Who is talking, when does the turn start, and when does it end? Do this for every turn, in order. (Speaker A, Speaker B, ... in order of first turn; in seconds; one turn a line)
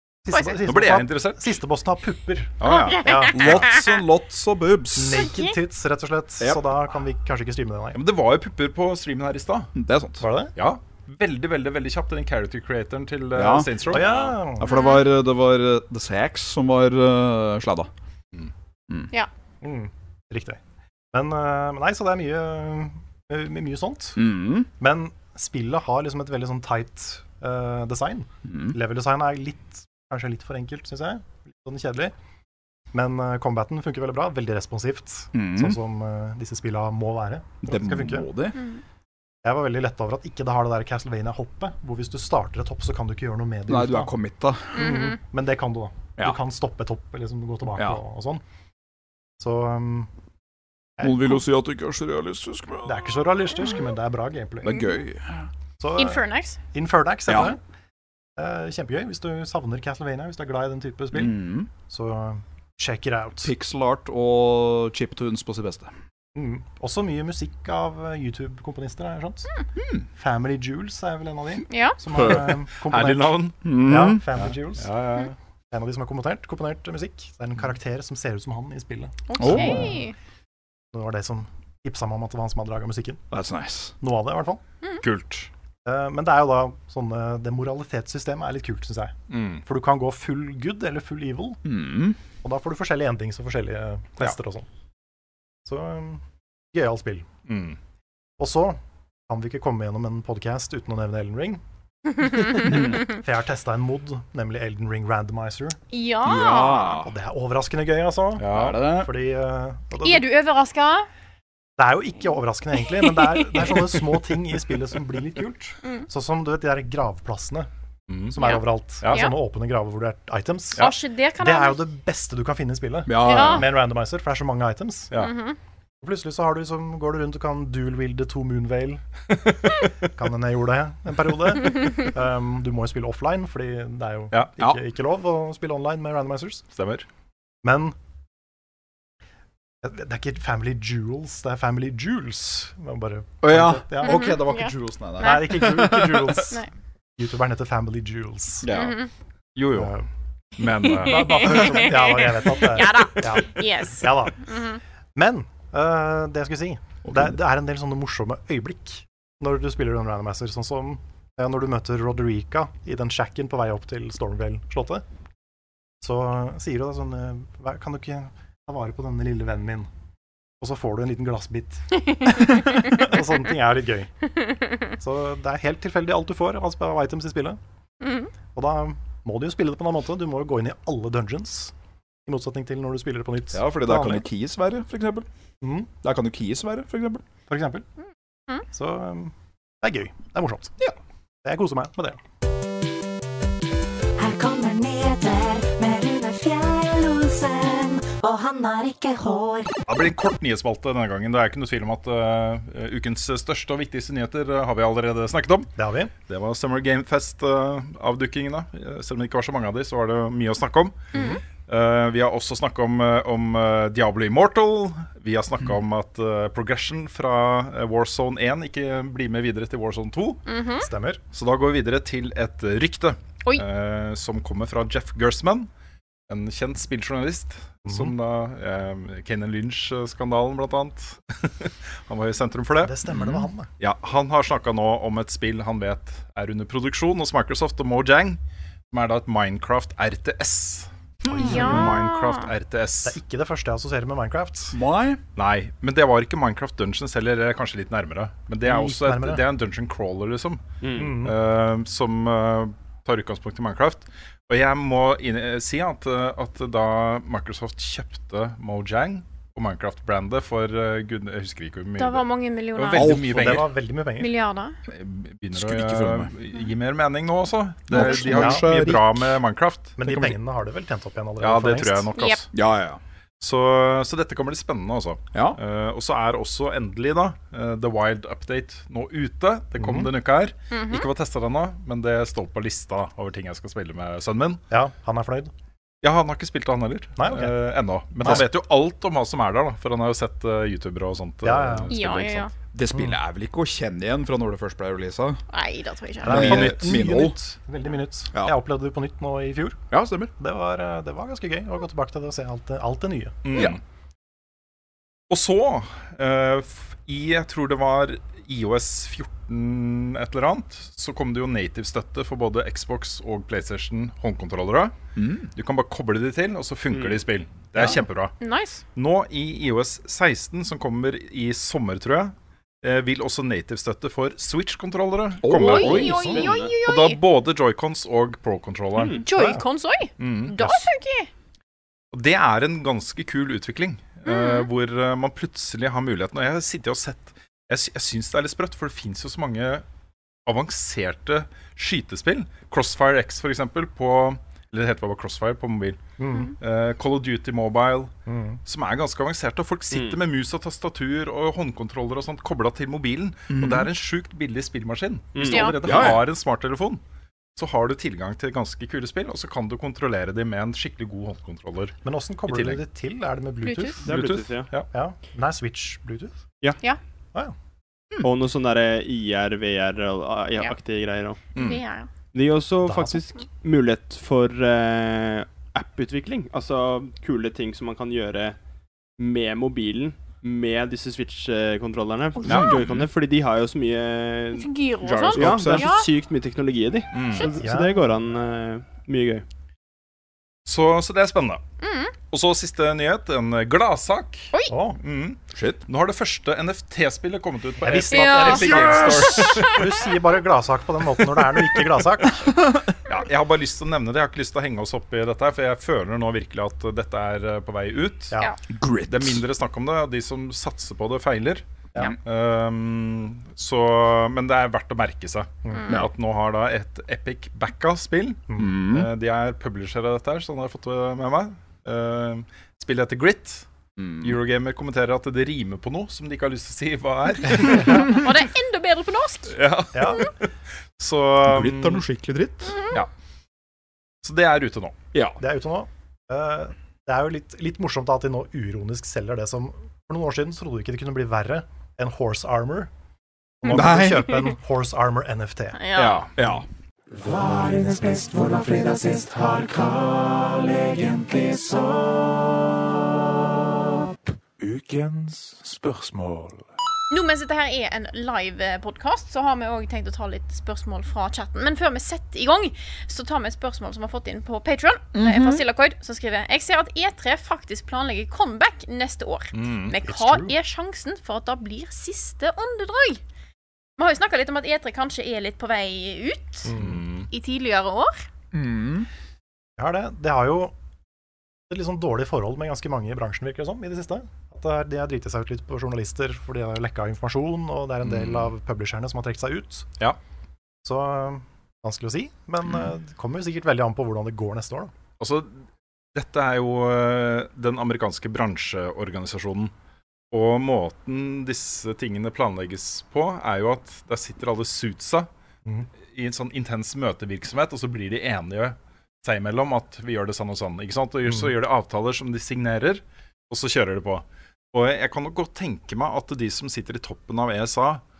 Speaker A: 0.3-3.5
Speaker B: 0.6-1.4
Speaker B: 2.6-3.0
Speaker C: 2.6-3.8
Speaker D: 3.3-5.3
Speaker A: 5.0-8.0
Speaker C: 5.2-5.5
Speaker D: 6.4-6.8
Speaker B: 7.9-9.7
Speaker D: 9.8-10.3
Speaker A: 10.2-10.5
Speaker B: 10.6-14.3
Speaker D: 13.3-17.9
Speaker A: 13.9-14.7
Speaker C: 14.7-15.0
Speaker A: 19.6-20.6
Speaker A: 21.1-24.2
Speaker D: 24.2-24.7
Speaker A: 24.8-32.1
Speaker D: 28.5-28.8
Speaker A: 32.9-38.3
Speaker D: 35.3-35.8
Speaker D: 37.6-38.6
Speaker A: 39.4-44.1
Speaker D: 43.7-44.9
Speaker C: 44.7-45.2
Speaker A: 44.8-48.4
Speaker D: 47.7-48.0
Speaker A: 49.4-50.1
Speaker A: 51.0-51.3
Speaker D: 51.0-53.7
Speaker A: 52.9-54.9
Speaker D: 54.6-55.5
Speaker A: 55.8-57.6
Speaker C: 56.0-56.6
Speaker D: 57.3-57.6
Speaker A: 58.4-63.5
Speaker D: 61.1-61.7
Speaker D: 63.4-65.9
Speaker A: 66.3-69.5
Speaker D: 69.8-70.0
Speaker A: 70.2-74.9
Speaker C: 71.7-72.0
Speaker B: 72.9-73.6
Speaker D: 73.6-74.2
Speaker B: 74.8-75.3
Speaker A: 75.7-80.0
Speaker C: 79.3-80.2
Speaker D: 79.4-79.9
Speaker A: 80.9-83.2
Speaker D: 83.3-84.0
Speaker A: 84.0-84.6
Speaker B: 85.0-85.5
Speaker A: 85.8-89.1
Speaker B: 89.3-89.7
Speaker A: 89.7-91.6
Speaker D: 91.7-92.2
Speaker A: 92.4-94.7
Speaker A: 95.7-97.3
Speaker B: 97.5-97.8
Speaker A: 98.4-101.6
Speaker A: 102.6-105.8
Speaker C: 105.9-107.0
Speaker D: 106.2-107.1
Speaker A: 107.0-110.3
Speaker B: 108.4-108.9
Speaker D: 108.4-109.1
Speaker C: 110.0-111.1
Speaker A: 111.8-117.7
Speaker B: 118.1-118.4
Speaker A: 118.3-125.1
Speaker C: 118.4-119.3
Speaker C: 120.8-121.8
Speaker D: 123.1-123.8
Speaker C: 123.2-123.6
Speaker C: 125.1-125.6
Speaker A: 126.0-129.0
Speaker A: 130.1-136.6
Speaker B: 134.3-134.7
Speaker B: 136.8-137.1
Speaker A: 137.6-137.9
Speaker A: 139.8-144.4
Speaker D: 143.4-146.6
Speaker C: 144.0-145.7
Speaker A: 145.2-146.6
Speaker A: 147.2-148.7
Speaker D: 148.6-149.0
Speaker C: 148.7-149.1
Speaker B: 149.6-149.9
Speaker A: 149.8-150.1
Speaker B: 150.6-151.8
Speaker A: 150.9-154.5
Speaker C: 150.9-154.8
Speaker A: 155.2-165.0
Speaker D: 157.1-157.4
Speaker A: 166.0-169.9
Speaker A: 170.6-174.1
Speaker A: 175.0-177.6
Speaker C: 178.0-178.3
Speaker A: 178.5-181.7
Speaker A: 182.3-184.2
Speaker D: 183.5-185.3
Speaker A: 185.6-185.9
Speaker D: 186.0-187.2
Speaker A: 187.5-187.8
Speaker A: 188.7-190.8
Speaker A: 191.4-192.2
Speaker E: 194.2-199.7
Speaker B: 199.9-205.7
Speaker A: 205.8-206.1
Speaker B: 206.3-211.1
Speaker C: 211.1-211.4
Speaker B: 211.7-220.4
Speaker C: 220.5-220.9
Speaker A: 220.8-221.2
Speaker B: 221.3-225.7
Speaker B: 226.3-233.2
Speaker A: 232.8-233.7
Speaker D: 233.1-233.4
Speaker B: 233.8-238.4
Speaker B: 238.9-243.2
Speaker A: 241.3-242.0
Speaker C: 241.4-242.5
Speaker A: 243.1-244.8
Speaker D: 244.7-245.2
Speaker B: 245.4-263.7
Speaker A: 248.6-249.4
Speaker F: 250.8-251.2
Speaker A: 250.9-251.3
Speaker C: 262.0-263.3
Speaker D: 262.9-263.7
Speaker A: 263.3-264.3
Speaker C: 264.2-264.8
Speaker B: 264.9-270.4
Speaker D: 265.5-266.3
Speaker D: 267.9-269.4
Speaker A: 268.0-268.9
Speaker A: 270.0-272.1
Speaker B: 271.4-272.5
Speaker D: 272.5-273.0
Speaker B: 273.4-284.6
Speaker A: 279.8-280.1
Speaker C: 280.7-281.1
Speaker A: 284.7-285.5
Speaker B: 286.0-292.5
Speaker A: 287.2-287.5
Speaker A: 288.2-288.5
Speaker A: 291.4-292.0
Speaker C: 291.9-292.5
Speaker D: 292.7-295.4
Speaker C: 295.5-296.6
Speaker A: 296.2-299.8
Speaker D: 296.2-297.4
Speaker B: 296.4-297.0
Speaker D: 299.9-300.3
Speaker A: 300.4-303.7
Speaker B: 303.4-303.8
Speaker D: 303.5-303.8
Speaker B: 305.3-315.0
Speaker D: 315.2-315.5
Speaker B: 315.5-318.3
Speaker F: 316.9-317.2
Speaker C: 318.4-318.8
Speaker B: 318.9-329.2
Speaker D: 325.4-326.4
Speaker C: 325.6-327.2
Speaker A: 326.1-326.4
Speaker F: 326.2-326.7
Speaker F: 328.9-329.2
Speaker C: 329.2-331.3
Speaker A: 329.3-329.6
Speaker B: 330.2-330.8
Speaker B: 332.1-339.8
Speaker C: 334.3-334.7
Speaker B: 340.5-346.0
Speaker A: 346.2-346.5
Speaker B: 346.6-348.1
Speaker A: 348.3-348.6
Speaker B: 348.6-357.0
Speaker F: 349.9-350.2
Speaker D: 353.5-353.9
Speaker F: 355.3-356.1
Speaker C: 355.5-355.8
Speaker D: 355.8-356.3
Speaker B: 357.6-362.8
Speaker A: 362.0-364.1
Speaker C: 363.6-364.0
Speaker F: 364.0-364.7
Speaker B: 364.1-364.9
Speaker A: 364.9-366.3
Speaker F: 368.2-371.4
Speaker B: 371.6-371.8
Speaker C: 371.6-372.1
Speaker F: 372.3-378.6
Speaker A: 372.8-373.2
Speaker F: 379.2-384.7
Speaker D: 382.5-382.9
Speaker B: 382.5-383.0
Speaker C: 384.5-386.1
Speaker D: 385.0-385.9
Speaker F: 385.3-389.4
Speaker B: 387.1-387.5
Speaker A: 387.6-388.0
Speaker B: 390.7-391.6
Speaker C: 391.8-392.1
Speaker B: 392.3-394.5
Speaker A: 394.7-395.0
Speaker B: 395.0-399.9
Speaker D: 395.5-395.8
Speaker A: 397.8-402.5
Speaker C: 398.1-399.8
Speaker B: 403.1-408.4
Speaker D: 408.7-409.5
Speaker B: 409.1-423.6
Speaker D: 418.6-419.1
Speaker D: 424.0-424.4
Speaker B: 424.2-428.2
Speaker A: 427.6-428.1
Speaker C: 427.9-429.6
Speaker B: 429.5-430.4
Speaker A: 429.9-430.3
Speaker B: 431.0-432.0
Speaker D: 431.4-432.8
Speaker C: 432.7-433.0
Speaker B: 434.2-435.0
Speaker D: 435.1-435.4
Speaker A: 435.4-442.9
Speaker A: 443.6-445.8
Speaker D: 443.7-444.6
Speaker C: 445.8-446.3
Speaker D: 446.0-446.7
Speaker G: 447.7-449.5
Speaker G: 454.7-456.3
Speaker C: 457.1-473.2
Speaker D: 465.1-465.6
Speaker B: 469.5-469.9
Speaker A: 470.0-470.5
Speaker C: 474.0-476.7
Speaker A: 476.7-477.0
Speaker B: 476.8-477.3
Speaker C: 477.3-478.2
Speaker D: 478.5-479.1
Speaker A: 479.8-480.7
Speaker A: 481.7-489.9
Speaker B: 488.0-488.5
Speaker A: 490.8-494.9
Speaker B: 495.2-495.6
Speaker B: 496.1-499.7
Speaker B: 500.3-505.3
Speaker B: 506.1-518.0